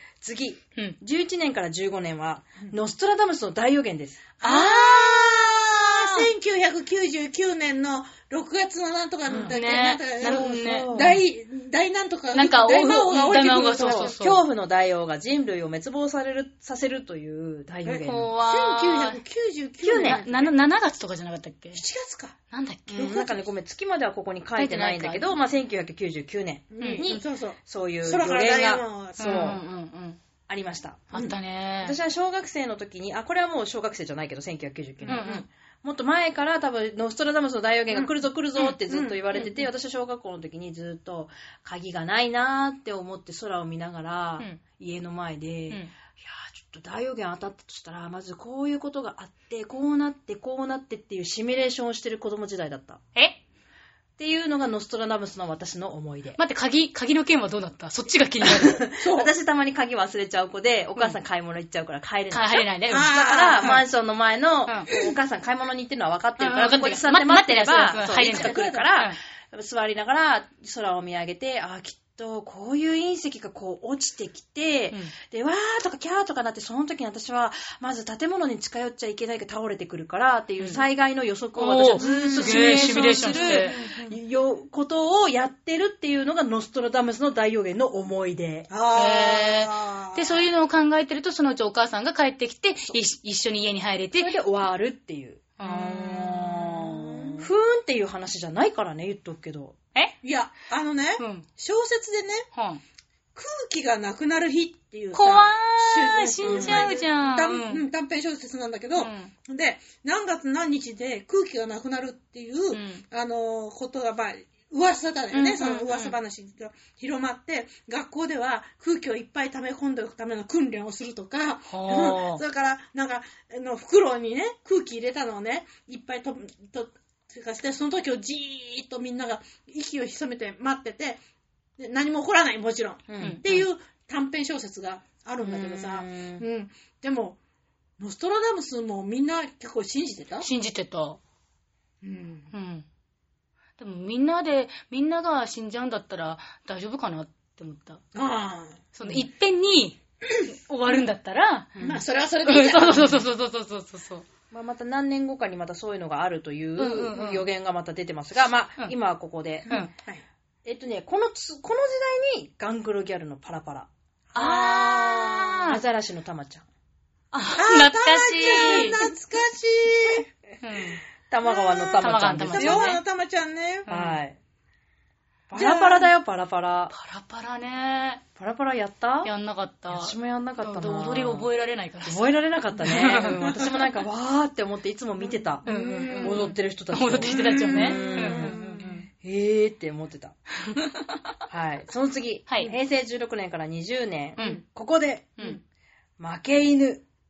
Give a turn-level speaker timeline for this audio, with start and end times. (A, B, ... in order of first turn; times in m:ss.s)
0:00.2-0:04.3 A
0:04.4-0:14.1 B
0:04.4-0:06.3 C
0:09.3-0:09.5 A
0:09.4-0:11.2 C
0:10.2-0:11.2 A
0:12.3-0:14.4 C
0:13.8-0:18.3 A
0:17.9-0:19.2 C
0:17.9-0:20.6 B
0:19.8-0:20.2 A
0:19.9-0:21.8 C
0:21.7-0:22.4 B
0:22.5-0:23.2 C
0:22.9-0:29.6 A
0:23.0-0:23.4 B
0:24.6-0:25.4 C
0:26.7-0:29.6 B
0:26.8-0:27.0 C
0:29.2-0:30.2 C
0:30.5-0:53.0 A
0:31.1-0:32.0 C
0:35.1-0:35.4 C
0:35.1-0:35.5 B
0:37.9-0:39.2 B
0:54.2-0:56.4 A
0:56.4-0:58.8 C
0:58.4-1:28.7 A
0:59.0-0:59.3 B
1:02.3-1:03.8 C
1:02.9-1:03.8 B
1:06.4-1:09.2 C
1:07.9-1:08.9 B
1:21.6-1:23.8 C
1:22.0-1:24.0 B
1:28.7-1:30.5 B
1:29.0-1:34.4 C
1:34.1-1:39.8 A
1:35.6-1:37.4 C
1:36.8-1:37.4 B
1:40.2-1:42.5 B
1:41.2-1:41.4 C
1:42.5-1:42.8 C
1:43.4-2:11.2 B
1:45.1-1:47.8 C
1:46.4-1:46.9 A
1:49.0-1:49.3 C
1:52.7-1:53.0 C
1:55.3-1:56.2 C
2:01.7-2:02.4 C
2:11.8-2:17.4 B
2:13.1-2:13.6 A
2:13.2-2:13.4 C
2:15.4-2:16.4 A
2:18.0-2:20.5 B
2:20.4-2:21.2 C
2:22.0-2:22.5 B
2:22.5-2:22.8 C
2:23.8-2:28.0 C
2:28.1-2:28.8 B
2:29.0-2:31.7 C
2:31.8-2:32.0 A
2:31.8-2:33.2 B
2:32.4-2:34.3 C
2:34.5-2:39.7 A
2:36.8-2:37.5 C
2:39.7-2:40.2 B
2:40.6-2:43.9 A
2:44.3-2:45.5 B
2:44.4-2:45.8 C
2:44.4-2:45.0 A
2:45.6-2:46.7 A
2:47.3-2:49.0 C
2:47.6-2:50.3 B
2:48.5-2:49.1 A
2:50.6-2:51.0 C
2:51.3-2:52.9 A
2:51.4-2:53.9 B
2:52.0-2:53.0 C
2:53.9-2:54.2 C
2:53.9-2:54.4 A
2:55.5-2:56.9 A
2:55.6-2:56.1 B
2:56.9-2:58.2 C
2:58.4-2:59.3 A
2:59.2-3:03.5 C
2:59.9-3:01.5 A
3:02.0-3:08.6 A
3:03.4-3:03.7 B
3:05.5-3:06.5 B
3:05.6-3:09.0 C
3:07.2-3:09.0 B
3:09.2-3:10.4 A
3:10.6-3:11.2 C
3:11.5-3:15.4 A
3:12.5-3:12.7 C
3:14.4-3:14.6 C
3:16.2-3:17.0 A